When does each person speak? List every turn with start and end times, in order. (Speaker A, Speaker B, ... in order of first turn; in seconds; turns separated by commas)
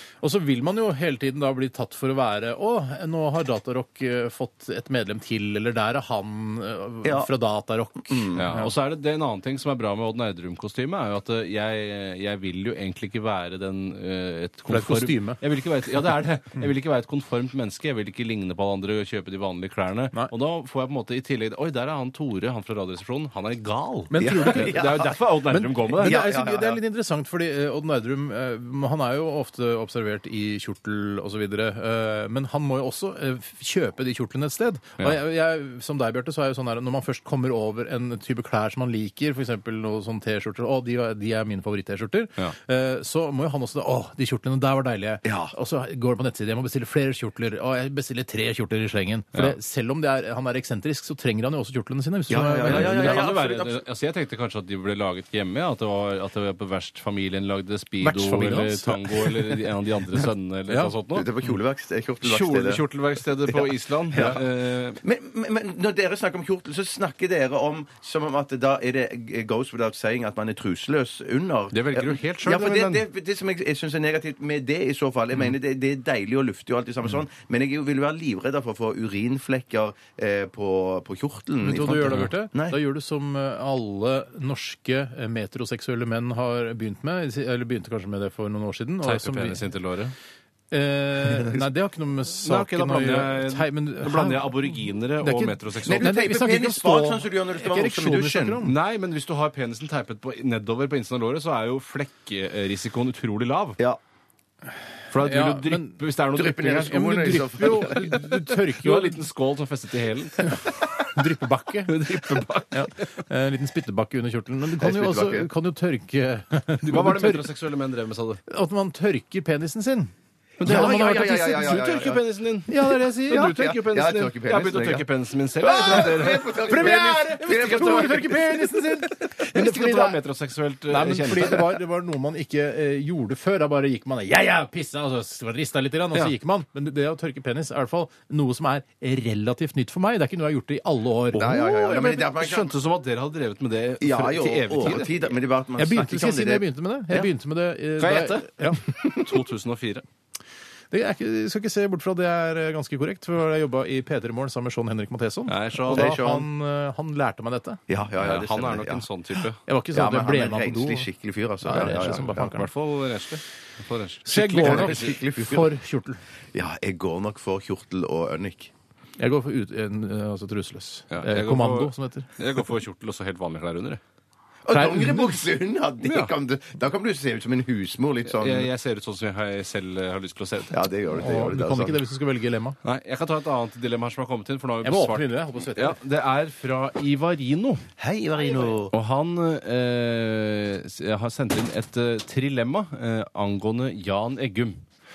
Speaker A: 0.2-8.7, Speaker B: 7.0-7.3, Speaker B: 8.1-8.5, Speaker C: 8.4-26.2, Speaker A: 14.7-15.4, Speaker A: 24.1-53.2, Speaker B: 24.2-25.2, Speaker B: 26.0-26.8, Speaker B: 45.2-45.5, Speaker B: 52.3-53.8, Speaker C: 52.6-61.3, Speaker A: 58.0-59.4, Speaker A: 60.7-60.9, Speaker B: 61.1-62.8, Speaker C: 62.2-65.0, Speaker B: 63.5-64.4, Speaker B: 65.0-82.8, Speaker C: 71.7-73.0, Speaker A: 81.6-89.7, Speaker C: 89.0-90.1, Speaker A: 90.7-98.8, Speaker C: 92.4-96.2, Speaker B: 95.8-98.6, Speaker C: 98.6-103.8, Speaker C: 105.1-111.0, Speaker A: 105.2-106.0, Speaker B: 106.3-108.1, Speaker A: 106.9-109.2, Speaker A: 111.1-112.0, Speaker C: 111.9-113.1, Speaker A: 112.7-117.5, Speaker B: 114.8-115.5, Speaker C: 116.8-118.4, Speaker A: 118.5-120.1, Speaker C: 120.6-131.7, Speaker B: 120.6-122.2, Speaker A: 120.6-121.7, Speaker A: 122.7-123.5, Speaker B: 123.3-125.1, Speaker B: 125.6-128.5, Speaker A: 126.5-130.2, Speaker A: 130.9-141.6, Speaker B: 141.3-142.8, Speaker C: 141.4-145.3, Speaker B: 144.0-147.3, Speaker A: 145.8-148.9, Speaker C: 148.0-150.1, Speaker A: 150.9-157.8, Speaker C: 155.5-156.1, Speaker B: 155.9-156.5, Speaker B: 157.9-159.1, Speaker C: 158.2-159.6, Speaker A: 159.7-161.1, Speaker B: 159.9-162.5, Speaker A: 161.6-162.7, Speaker C: 161.9-165.1, Speaker A: 164.3-166.2, Speaker B: 164.5-165.7, Speaker B: 166.5-168.7, Speaker A: 169.2-172.3, Speaker C: 171.1-174.0, Speaker B: 174.7-178.7, Speaker A: 174.7-175.4, Speaker C: 176.0-176.3, Speaker C: 178.3-180.8, Speaker B: 180.7-182.0, Speaker A: 181.1-182.8, Speaker C: 182.8-187.8, Speaker A: 184.8-186.0, Speaker B: 188.0-188.9, Speaker C: 188.9-194.8